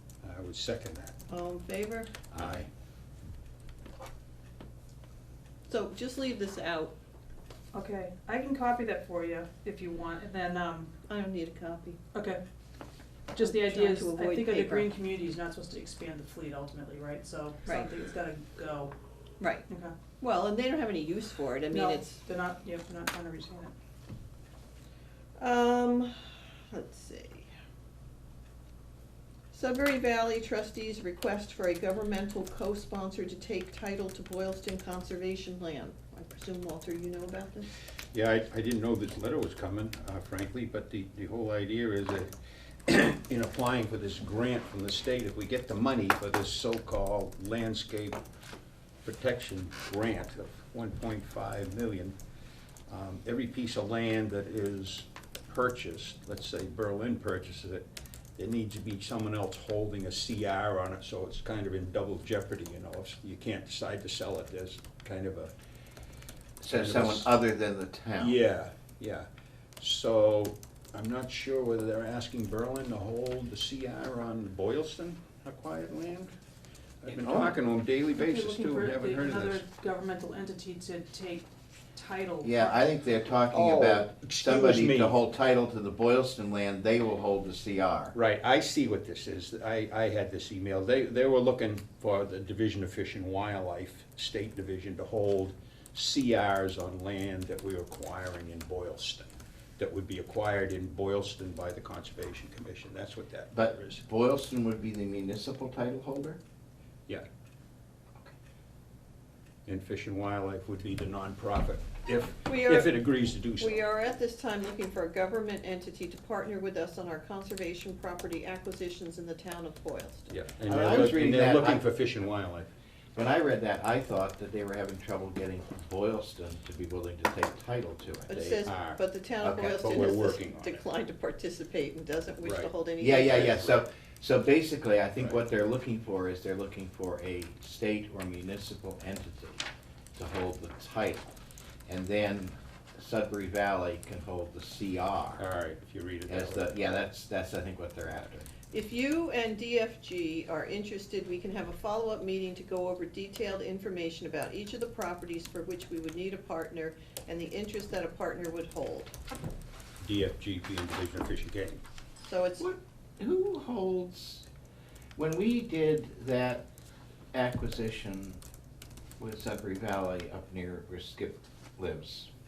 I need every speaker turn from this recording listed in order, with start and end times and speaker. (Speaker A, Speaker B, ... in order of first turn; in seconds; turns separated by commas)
Speaker A: 0.2-1.2, Speaker B: 1.3-2.1, Speaker C: 2.3-2.7, Speaker A: 2.4-2.7, Speaker B: 5.7-6.9, Speaker D: 7.7-10.9, Speaker B: 11.1-12.0, Speaker D: 12.1-12.4, Speaker D: 13.3-18.9, Speaker B: 13.4-14.9, Speaker B: 19.4-19.7, Speaker D: 19.7-19.9, Speaker B: 20.2-22.2, Speaker D: 21.7-23.7, Speaker B: 25.4-26.1, Speaker B: 26.7-27.5, Speaker B: 29.5-37.7, Speaker A: 38.1-42.3, Speaker A: 42.9-48.2, Speaker A: 49.0-52.1, Speaker A: 52.9-57.9, Speaker A: 58.4-65.5, Speaker C: 66.6-68.4, Speaker A: 66.7-67.3, Speaker A: 68.2-69.3, Speaker A: 69.8-76.3, Speaker A: 77.0-79.6, Speaker C: 77.1-77.6, Speaker D: 78.2-82.8, Speaker C: 82.4-88.2, Speaker A: 83.5-85.2, Speaker A: 88.1-104.0, Speaker C: 103.5-106.4, Speaker A: 109.7-113.8, Speaker B: 112.5-113.0, Speaker B: 113.6-120.3, Speaker A: 120.3-122.7, Speaker C: 120.7-121.8, Speaker C: 123.2-128.7, Speaker B: 128.3-133.7, Speaker A: 128.7-130.8, Speaker C: 129.4-130.1, Speaker A: 132.4-132.7, Speaker C: 133.0-139.6, Speaker C: 140.2-141.3, Speaker C: 141.9-145.4, Speaker A: 145.4-146.7, Speaker C: 146.3-148.5, Speaker B: 148.7-159.1, Speaker A: 160.0-161.8, Speaker B: 162.2-162.7, Speaker C: 162.6-164.5, Speaker C: 165.2-166.6, Speaker C: 167.3-168.4, Speaker C: 169.2-172.3